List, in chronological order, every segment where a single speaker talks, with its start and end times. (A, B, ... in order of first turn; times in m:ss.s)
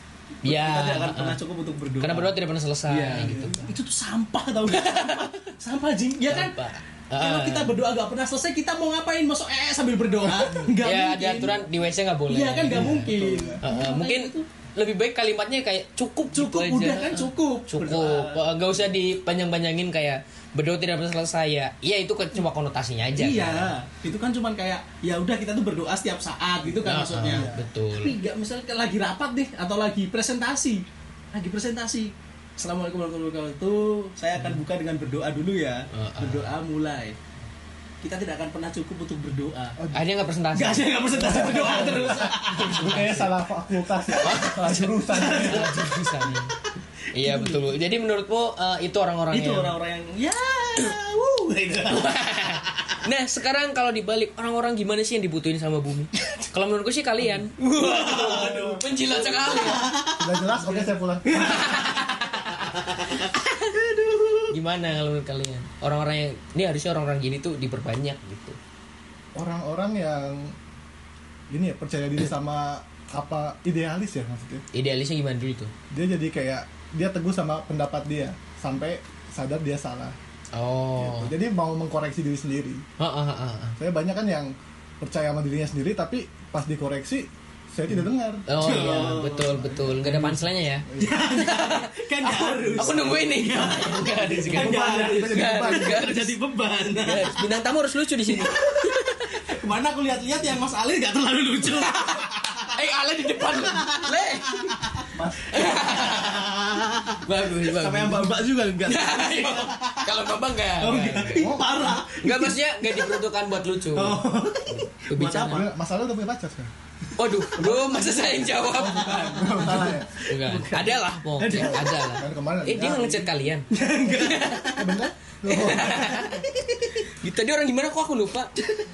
0:00.4-0:02.4 A
0:00.4-0:01.4 B
0:02.0-0:03.7 B
0:02.9-0:06.6 A
0:03.2-0:03.6 C
0:04.7-0:05.5 B
0:06.3-0:07.8 B
0:07.2-0:11.6 A
0:10.8-0:13.1 B
0:12.3-0:14.5 A
0:12.7-0:13.6 C
0:13.6-0:23.7 B
0:16.3-0:18.4 A
0:23.2-0:37.2 A
0:26.8-0:28.2 B
0:27.2-0:27.7 C
0:35.9-0:36.5 B
0:38.0-0:39.8 A
0:39.8-0:40.1 C
0:39.9-0:43.3 B
0:40.5-0:43.2 A
0:41.1-0:45.9 C
0:44.1-0:46.5 B
0:45.1-0:45.8 A
0:47.1-0:49.7 B
0:47.2-0:47.6 A
0:49.3-0:52.6 A
0:51.9-0:59.9 B
0:57.7-1:04.5 A
0:58.3-0:58.8 C
1:00.2-1:01.7 C
1:01.3-1:03.3 B
1:04.5-1:08.6 B
1:09.4-1:10.6 C
1:11.5-1:14.6 C
1:14.7-1:15.7 B
1:15.9-1:20.2 C
1:20.5-1:21.3 B
1:21.0-1:22.8 C
1:23.0-1:23.8 B
1:23.8-1:28.5 C
1:28.5-1:36.4 B
1:28.6-1:29.9 A
1:29.7-1:31.2 C
1:31.0-1:37.4 A
1:32.6-1:33.1 C
1:34.3-1:36.1 C
1:36.9-1:39.4 B
1:38.3-1:38.9 A
1:39.4-1:42.7 A
1:41.7-1:44.6 B
1:43.5-1:44.9 A
1:45.2-1:45.8 C
1:45.5-1:46.4 B
1:45.6-1:50.1 A
1:47.2-1:48.3 B
1:48.8-1:51.6 B
1:50.8-1:53.1 A
1:51.4-1:51.7 C
1:52.2-1:55.7 B
1:53.9-1:55.7 A
1:55.5-1:56.7 C
1:57.2-2:04.7 B
1:57.5-2:00.1 C
1:58.8-2:02.0 A
2:01.5-2:03.3 C
2:03.7-2:05.0 A
2:04.7-2:06.4 C
2:05.5-2:06.4 B
2:07.1-2:08.5 B